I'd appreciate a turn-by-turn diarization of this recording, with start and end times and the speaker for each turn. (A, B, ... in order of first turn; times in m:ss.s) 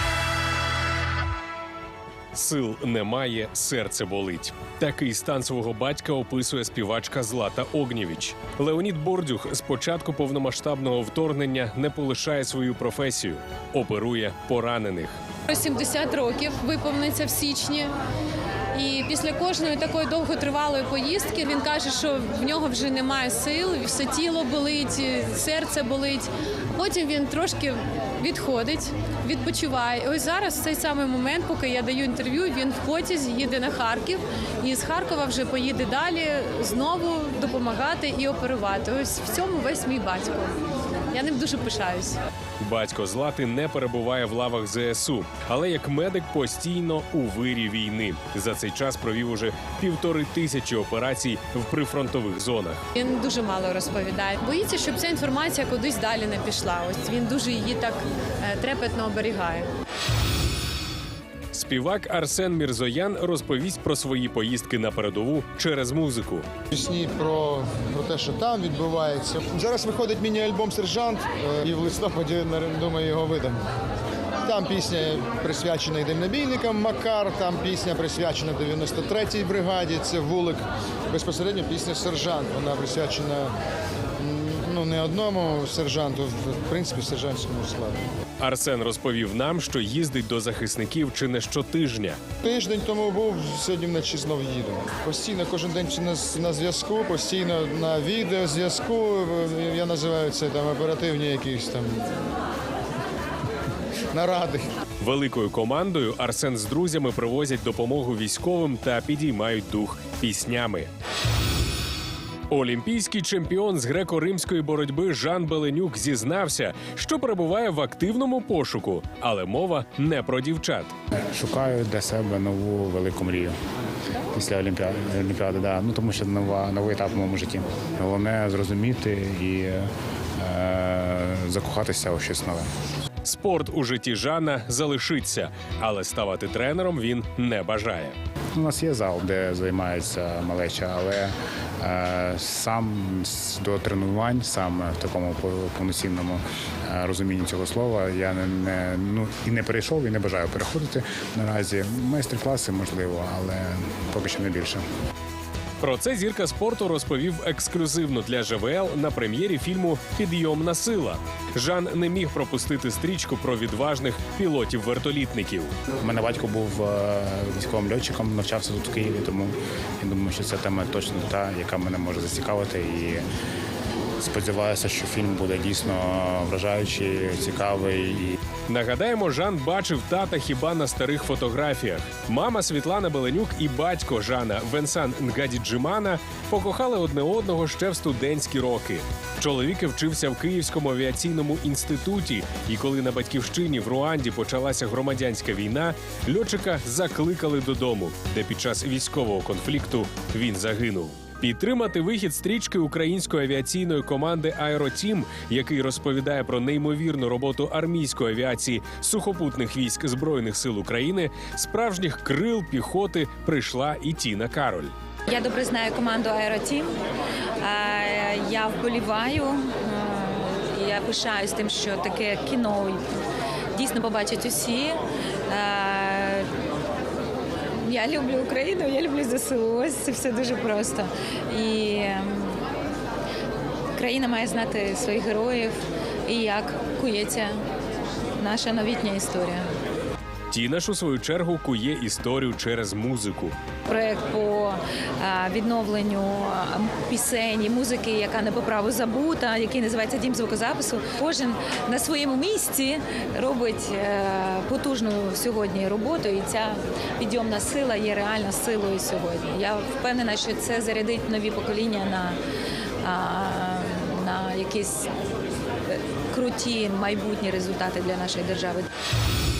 0:02.3-0:15.2 A
0:15.5-0:17.9 B
0:18.7-0:40.6 B
0:41.1-0:42.2 B
0:42.6-0:52.8 A
0:52.9-0:59.7 B
1:01.5-1:06.5 A
1:06.7-1:13.6 C
1:14.4-1:23.5 C
1:24.2-1:28.0 C
1:28.4-1:32.2 A
1:32.4-1:42.2 C
1:44.1-1:44.7 C
1:45.0-1:50.9 A
1:52.5-2:00.9 A
2:01.3-2:03.5 D
2:04.3-2:12.6 D
2:13.2-2:18.2 A
2:18.5-2:34.8 D
2:35.8-2:45.7 A
2:46.0-2:53.2 D
2:54.2-2:58.4 D
2:58.7-3:34.9 A
3:35.3-3:36.9 E
3:37.6-3:43.0 E
3:43.7-3:46.5 E
3:47.8-3:52.6 E
3:53.9-3:57.6 E
3:58.4-3:59.7 E
4:00.5-4:03.5 A
4:03.8-4:22.4 E
4:23.0-4:25.1 E
4:25.9-4:28.9 E